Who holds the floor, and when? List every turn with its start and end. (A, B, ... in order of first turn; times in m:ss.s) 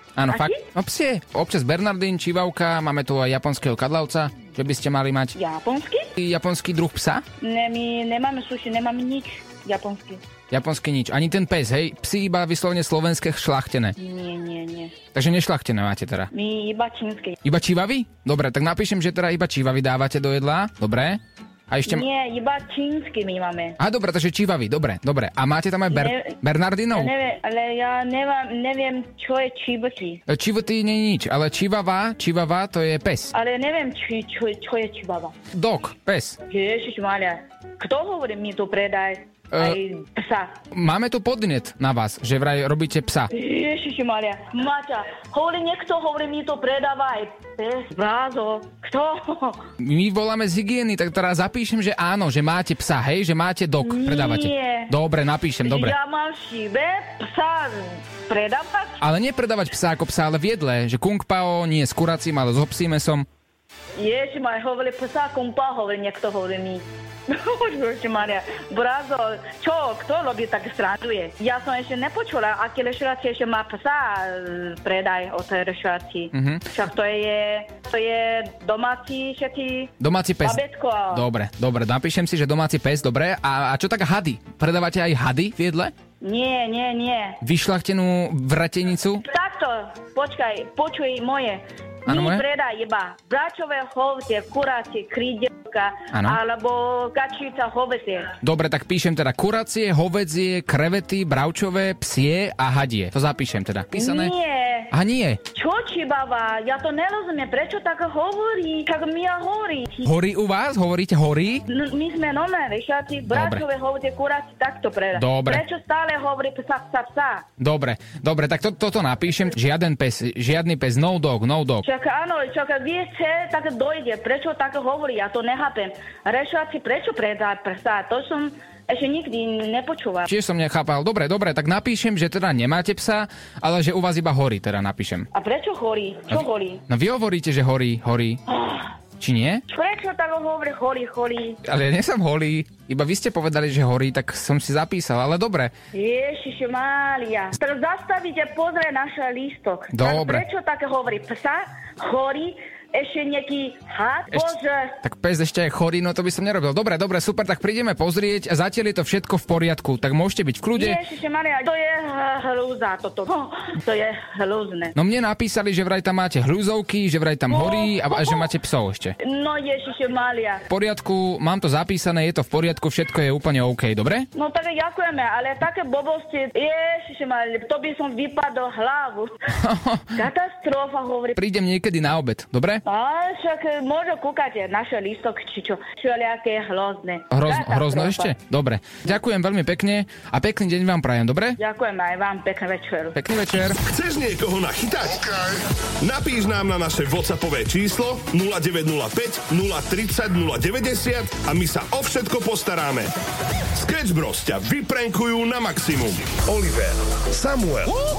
0:00.2-0:05.3 A
0:00.3-0:00.6 B
0:05.3-0:06.1 B
0:06.2-0:07.2 A
0:07.4-0:10.2 B
0:10.5-0:14.0 A
0:14.0-0:14.9 B
0:15.1-0:16.3 A
0:16.3-0:17.4 B
0:17.4-0:22.0 A
0:21.9-0:23.8 B
0:23.8-0:27.1 A
0:25.9-0:26.4 B
0:26.9-0:30.2 B
0:30.3-0:33.3 A
0:33.3-0:35.4 B
0:35.5-0:36.4 A
0:36.5-0:40.6 B
0:39.5-0:39.8 A
0:40.7-0:43.3 A
0:43.3-0:49.6 B
0:49.8-0:55.9 A
0:53.8-0:54.9 B
0:55.6-0:59.0 B
0:59.0-1:03.3 A
1:04.0-1:21.2 B
1:16.3-1:16.7 A
1:20.0-1:25.9 A
1:26.2-1:27.4 B
1:27.4-1:29.2 A
1:29.3-1:38.3 B
1:32.1-1:32.4 A
1:36.1-1:36.4 A
1:38.4-1:44.3 A
1:43.9-1:44.9 B
1:44.9-1:45.4 A
1:45.5-1:50.1 B
1:50.0-1:51.6 A
1:51.7-1:57.4 B
1:53.3-1:53.6 A
1:55.1-1:55.6 A
1:57.6-2:01.9 A
2:01.8-2:10.3 B
2:10.3-2:15.3 A
2:15.3-2:16.8 B
2:16.3-2:18.4 A
2:18.5-2:18.9 B
2:19.2-2:19.6 A
2:19.7-2:21.6 B
2:21.6-2:25.7 A
2:25.9-2:35.0 B
2:29.9-2:30.4 A
2:35.0-2:41.0 A
2:40.8-2:44.9 B
2:45.0-2:49.2 A
2:47.5-2:48.5 B
2:49.2-2:50.6 B
2:50.7-2:54.3 A
2:54.3-2:59.4 B
2:59.6-3:00.1 A
3:00.2-3:01.4 B
3:01.4-3:02.8 A
3:02.8-3:08.3 B
3:07.3-3:11.6 A
3:11.6-3:13.2 B
3:13.2-3:13.8 A
3:13.9-3:23.1 C
3:23.8-3:27.9 C